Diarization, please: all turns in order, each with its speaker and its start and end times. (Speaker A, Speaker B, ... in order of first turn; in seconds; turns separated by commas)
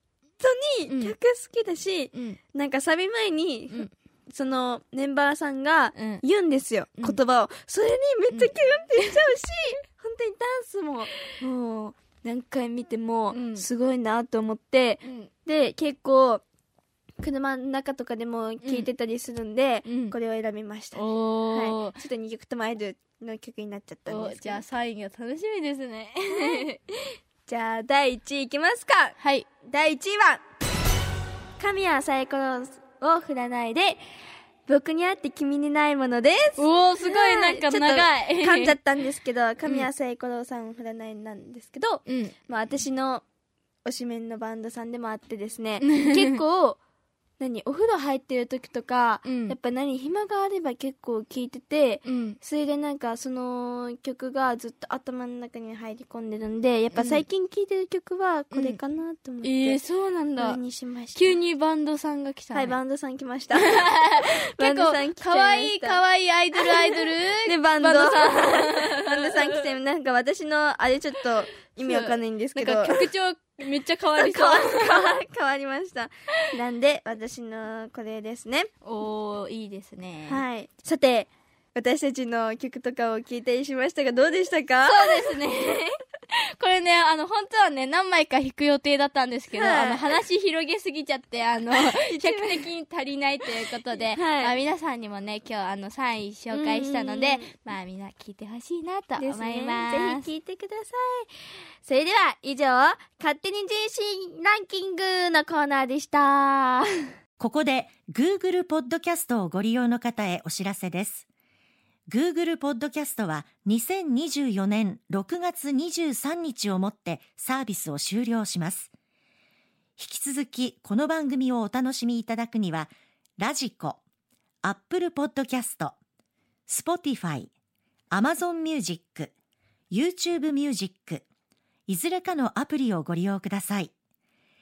Speaker A: 0.4-16.4, Speaker B: 0.9-1.2, Speaker B: 2.1-2.4, Speaker B: 6.0-6.2, Speaker B: 8.3-9.1, Speaker B: 13.3-13.7, Speaker B: 15.0-15.3, Speaker A: 17.2-24.6, Speaker B: 18.6-18.9, Speaker B: 19.9-20.2, Speaker B: 20.9-22.0, Speaker B: 24.1-26.8, Speaker A: 26.3-26.7, Speaker A: 27.5-30.4, Speaker B: 29.2-29.5, Speaker A: 31.6-34.0, Speaker A: 34.7-43.2, Speaker B: 36.6-38.8, Speaker B: 42.1-42.3, Speaker A: 43.9-46.8, Speaker B: 45.8-46.4, Speaker A: 47.4-59.8, Speaker B: 49.2-49.6, Speaker B: 52.0-52.4, Speaker B: 56.9-57.2, Speaker B: 58.5-58.8, Speaker B: 59.4-60.6, Speaker A: 60.4-61.4, Speaker B: 61.1-62.8, Speaker A: 62.5-66.0, Speaker B: 63.5-69.6, Speaker A: 66.6-73.1, Speaker B: 71.8-75.2, Speaker A: 74.1-78.7, Speaker B: 78.8-80.4, Speaker A: 80.3-85.4, Speaker B: 84.8-100.3, Speaker A: 89.5-90.2, Speaker A: 91.8-92.7, Speaker A: 94.1-94.5, Speaker A: 96.5-97.5, Speaker A: 99.2-101.3, Speaker A: 101.8-106.9, Speaker C: 107.4-111.3, Speaker C: 112.1-118.9, Speaker C: 120.0-124.0, Speaker C: 124.6-126.0, Speaker C: 126.7-127.5, Speaker C: 128.1-129.3, Speaker C: 129.9-131.3, Speaker C: 131.9-133.9